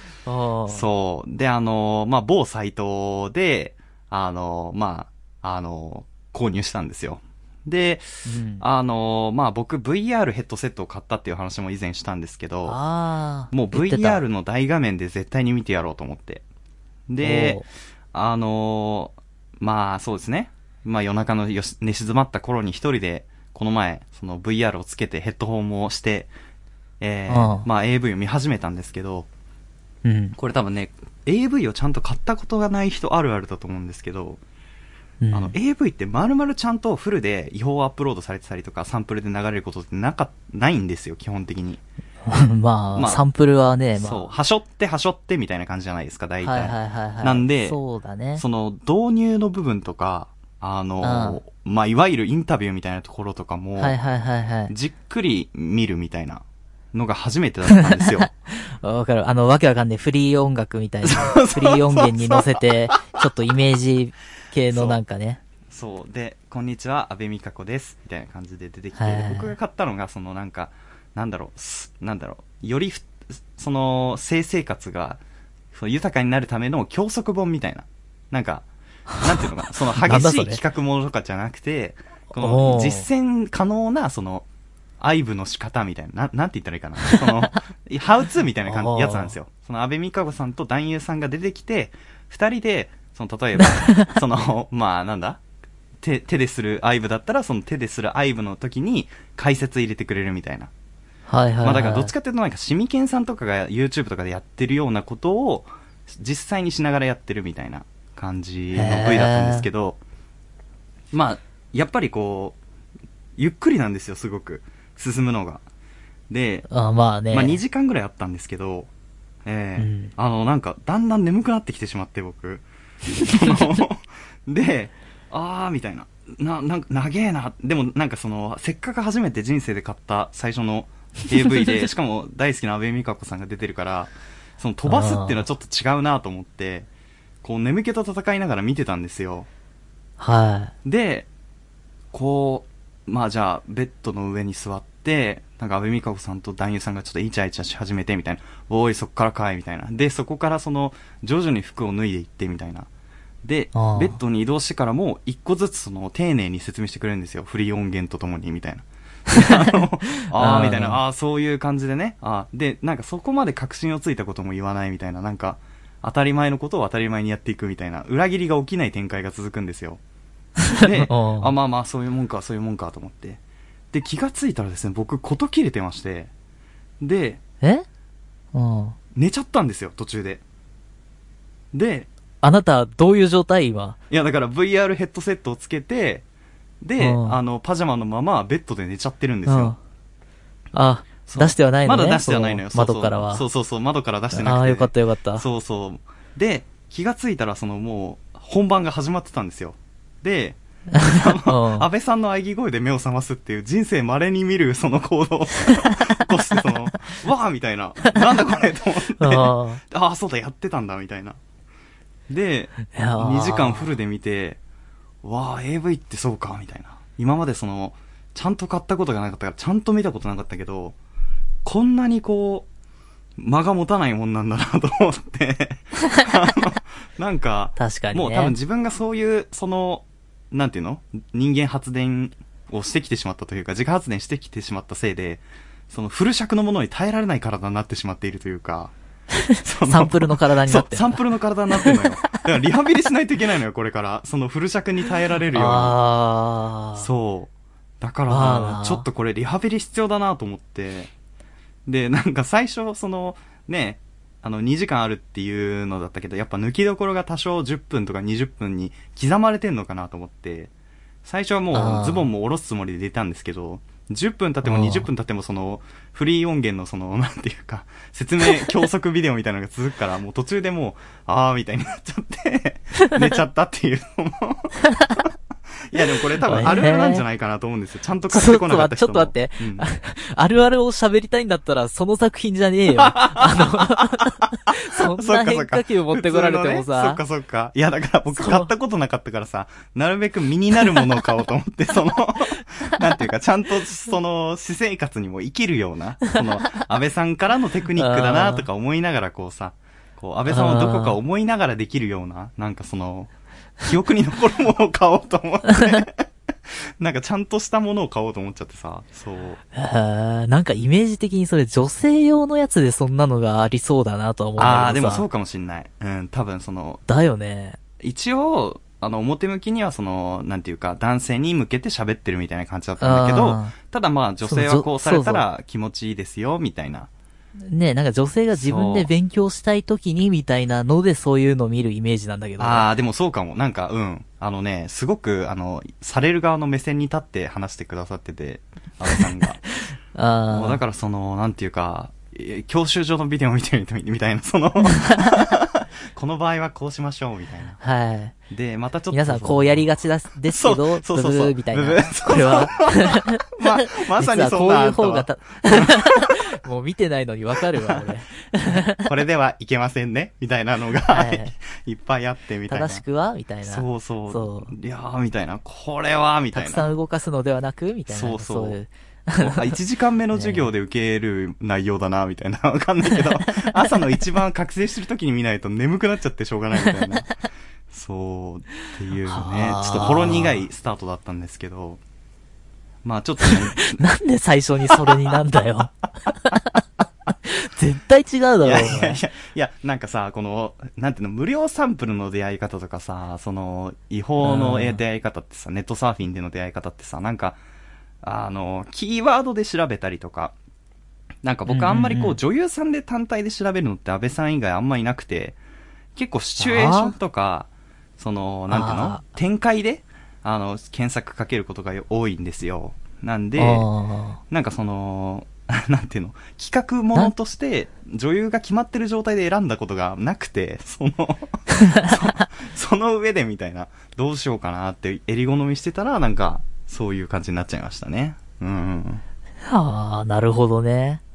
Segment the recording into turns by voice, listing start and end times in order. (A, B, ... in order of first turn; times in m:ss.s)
0:00.3-0:00.9 A
0:00.7-0:12.8 B
0:08.2-0:08.6 A
0:12.6-0:14.2 A
0:13.5-0:16.4 B
0:17.1-0:17.6 B
0:17.2-0:17.7 A
0:18.1-0:26.3 B
0:27.0-0:29.3 B
0:27.3-0:27.7 A
0:30.0-0:30.4 A
0:30.4-0:34.4 B
0:35.2-0:35.6 A
0:35.3-0:41.8 B
0:42.2-0:44.3 A
0:43.0-0:43.2 B
0:44.0-0:47.8 B
0:46.4-0:48.4 A
0:48.4-0:54.0 B
0:51.0-0:51.4 A
0:53.8-0:54.7 A
0:54.7-0:58.3 B
0:57.7-1:05.4 A
1:01.1-1:03.3 B
1:04.7-1:05.0 B
1:05.7-1:15.2 B
1:09.0-1:09.5 A
1:15.7-1:18.7 B
1:19.2-1:24.5 B
1:20.0-1:20.6 A
1:22.3-1:23.1 A
1:25.0-1:35.4 B
1:28.6-1:29.3 A
1:33.6-1:34.1 A
1:36.0-1:40.7 B
1:41.3-1:42.1 A
1:41.6-1:50.0 B
1:48.7-1:49.7 A
1:51.1-1:52.6 B
1:53.4-1:55.6 B
1:56.3-1:56.7 B
1:56.7-1:57.6 A
1:57.3-1:58.9 B
1:59.4-2:02.7 B
1:59.8-2:00.1 A
2:03.2-2:16.9 B
2:03.2-2:03.6 A
2:14.9-2:15.4 A
2:17.4-2:19.5 B
2:20.2-2:20.7 A
2:20.8-2:21.3 B
2:22.1-2:32.9 B
2:33.4-2:50.0 B
2:33.7-2:34.2 A
2:39.4-2:39.7 A
2:40.2-2:41.0 A
2:50.7-2:51.5 A
2:50.8-2:53.4 B
2:53.9-2:56.3 B
2:57.0-2:57.4 B
2:58.5-2:59.0 A
2:59.2-3:00.4 B
3:01.7-3:02.1 B
3:02.4-3:04.0 A
3:04.1-3:06.2 B
3:06.8-3:09.8 B
3:07.0-3:07.4 A
3:09.5-3:09.8 A
3:10.7-3:13.4 A
3:11.3-3:31.4 B
3:14.3-3:15.4 A
3:20.9-3:21.9 A
3:29.2-3:29.8 A
3:32.3-3:34.6 B
3:32.9-3:33.9 A
3:35.2-3:41.0 B
3:41.6-3:42.7 B
3:43.4-3:58.9 B
3:47.8-3:48.6 A
3:59.3-4:01.2 A
3:59.6-4:06.0 B
4:01.7-4:02.0 A
4:05.5-4:07.1 A
4:07.0-4:11.1 B
4:08.3-4:09.0 A
4:11.9-4:20.7 B
4:21.2-4:34.8 B
4:21.7-4:22.3 A
4:24.6-4:25.1 A
4:35.9-4:39.9 B
4:36.4-4:37.2 A
4:38.3-4:47.2 A
4:43.0-5:03.3 B
4:48.3-4:48.7 A
4:58.0-4:58.7 A
5:00.5-5:01.2 A
5:03.8-5:09.6 B
5:09.7-5:15.3 A
5:14.6-5:17.0 B
5:17.1-5:17.8 A
5:18.0-5:27.1 B
5:23.0-5:23.8 A
5:24.4-5:25.4 A
5:27.7-5:32.9 A
5:28.5-5:29.1 B
5:32.6-5:39.6 B
5:40.1-5:40.8 A
5:40.5-5:47.8 B
5:44.8-5:45.4 A
5:47.8-5:48.4 A
5:48.5-5:49.8 B
5:49.1-5:59.1 A
5:50.5-5:56.3 B
5:58.7-6:03.0 B
6:01.1-6:01.5 A
6:02.7-6:04.7 A
6:03.6-6:06.9 B
6:06.5-6:09.7 A
6:08.1-6:08.8 B
6:09.4-6:17.3 B
6:10.3-6:10.7 A
6:13.1-6:13.8 A
6:17.9-6:22.0 B
6:19.3-6:20.6 A
6:23.0-6:24.0 B
6:23.4-6:26.8 A
6:24.9-6:25.2 B
6:27.4-6:29.2 A
6:28.6-6:37.6 B
6:34.4-6:35.0 A
6:38.2-6:40.6 B
6:41.4-6:45.6 B
6:41.7-6:42.4 A
6:46.2-6:53.9 B
6:46.6-6:47.2 A
6:48.7-6:49.2 A
6:53.6-6:54.4 A
6:54.5-7:09.2 B
7:01.7-7:02.1 A
7:09.6-7:11.2 A